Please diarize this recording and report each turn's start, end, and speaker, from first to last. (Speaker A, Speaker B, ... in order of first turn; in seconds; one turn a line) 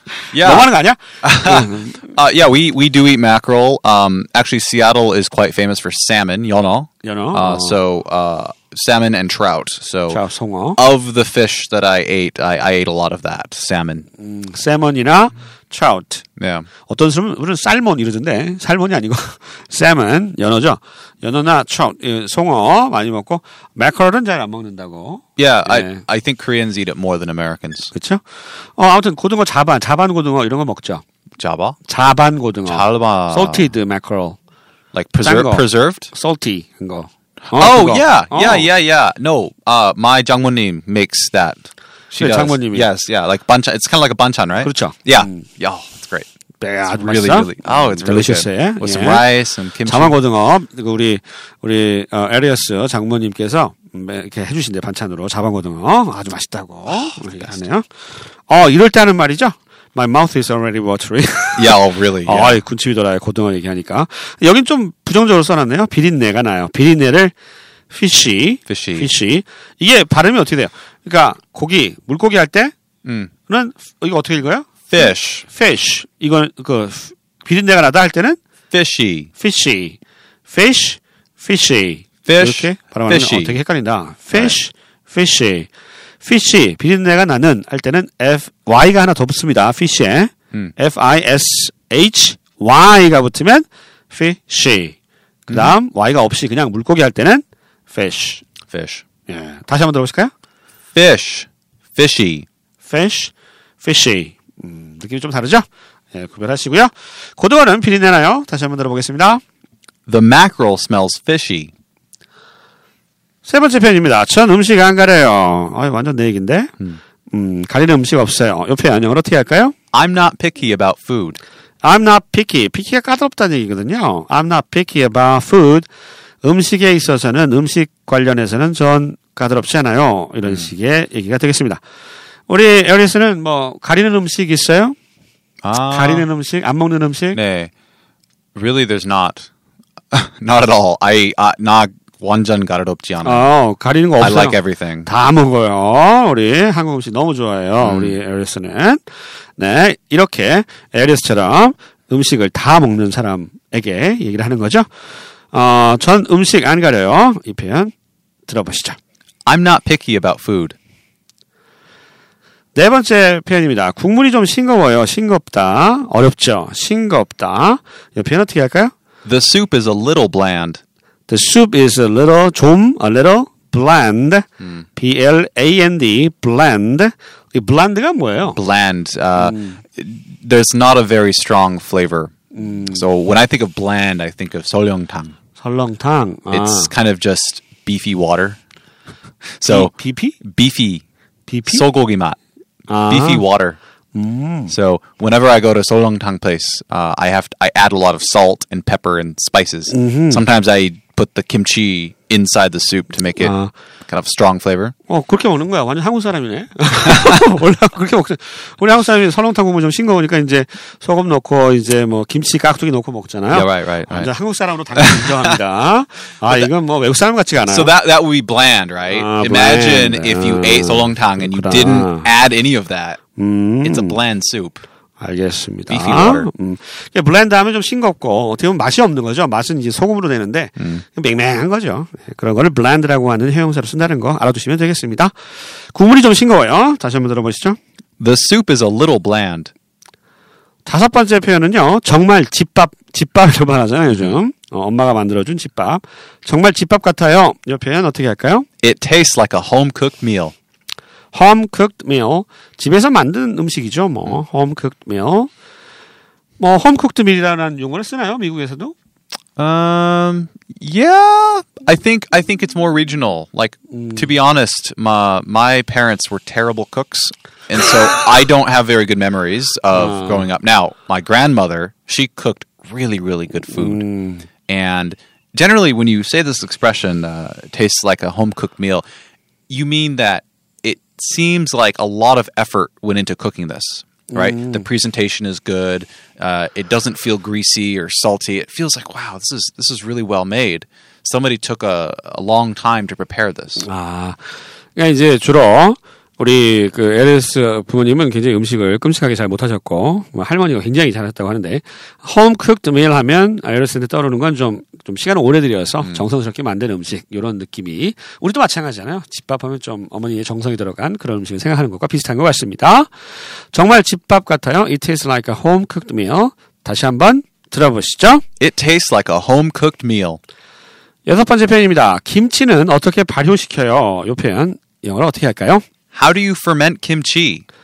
Speaker A: 0.3-2.0
Speaker B: 0.3-0.7
Speaker B: 1.2-10.2
Speaker A: 7.0-7.8
Speaker A: 10.1-10.8
Speaker B: 10.8-14.1
Speaker A: 14.2-16.2
Speaker B: 16.4-16.7
Speaker A: 16.9-26.0
Speaker B: 25.4-27.9
Speaker A: 27.9-28.2
Speaker A: 28.8-31.0
Speaker B: 31.4-31.8
Speaker A: 31.9-34.4
Speaker B: 32.7-33.7
Speaker B: 34.9-36.1
Speaker A: 35.2-38.7
Speaker B: 37.5-46.3
Speaker A: 42.2-42.9
Speaker A: 44.6-45.5
Speaker A: 46.6-49.3
Speaker B: 46.9-50.2
Speaker A: 49.9-67.3
Speaker B: 61.6-62.6
Speaker A: 67.9-72.7
Speaker B: 68.7-69.1
Speaker B: 73.0-73.3
Speaker A: 73.5-78.4
Speaker B: 74.9-75.5
Speaker B: 78.7-79.3
Speaker A: 79.4-85.7
Speaker B: 82.3-83.6
Speaker A: 86.2-95.0
Speaker B: 95.5-95.8
Speaker A: 95.5-98.4
Speaker B: 98.7-99.0
Speaker A: 99.3-100.3
Speaker B: 101.0-102.5
Speaker A: 102.8-109.4
Speaker B: 110.1-111.7
Speaker A: 113.5-116.7
Speaker A: 117.3-119.7
Speaker B: 119.9-121.4
Speaker A: 121.8-125.9
Speaker A: 126.4-131.8
Speaker A: 132.5-134.9
Speaker B: 135.6-136.3
Speaker A: 135.9-137.4
Speaker B: 137.3-137.7
Speaker B: 138.6-139.5
Speaker B: 140.1-143.5
Speaker A: 143.2-149.0
Speaker B: 144.2-145.1
Speaker B: 147.8-148.2
Speaker A: 149.6-154.9
Speaker A: 155.5-157.9
Speaker A: 158.5-159.0
Speaker B: 159.5-160.8
Speaker A: 162.8-168.9
Speaker B: 169.2-170.8
Speaker A: 171.3-178.6
Speaker B: 178.5-185.3
Speaker A: 179.4-179.8
Speaker A: 182.6-183.0
Speaker A: 185.6-186.9
Speaker B: 186.5-188.6
Speaker B: 189.6-191.0
Speaker A: 189.7-190.4
Speaker A: 191.5-191.8
Speaker B: 191.7-192.4
Speaker A: 192.9-193.4
Speaker B: 193.1-193.8
Speaker A: 194.2-194.7
Speaker B: 194.7-203.5
Speaker A: 199.9-200.4
Speaker A: 203.4-203.7
Speaker B: 204.1-204.9
Speaker A: 205.1-217.9
Speaker B: 213.5-214.3
Speaker B: 214.9-215.6
Speaker B: 217.6-223.2
Speaker A: 219.1-222.3
Speaker A: 223.4-224.2
Speaker B: 223.8-224.8
Speaker A: 225.2-235.3
Speaker B: 225.9-226.5
Speaker B: 230.8-231.0
Speaker A: 235.9-237.8
Speaker B: 238.2-239.7
Speaker A: 240.9-248.7
Speaker B: 248.8-250.5
Speaker A: 251.3-255.5
Speaker A: 256.6-258.9
Speaker B: 259.6-274.1
Speaker A: 264.0-264.3
Speaker A: 269.9-270.5
Speaker A: 273.7-274.4
Speaker B: 274.7-279.1
Speaker B: 279.7-293.9
Speaker A: 284.3-284.9
Speaker A: 293.8-313.1
Speaker A: 313.7-318.4
Speaker B: 318.6-320.4
Speaker A: 321.3-325.9
Speaker B: 326.1-327.6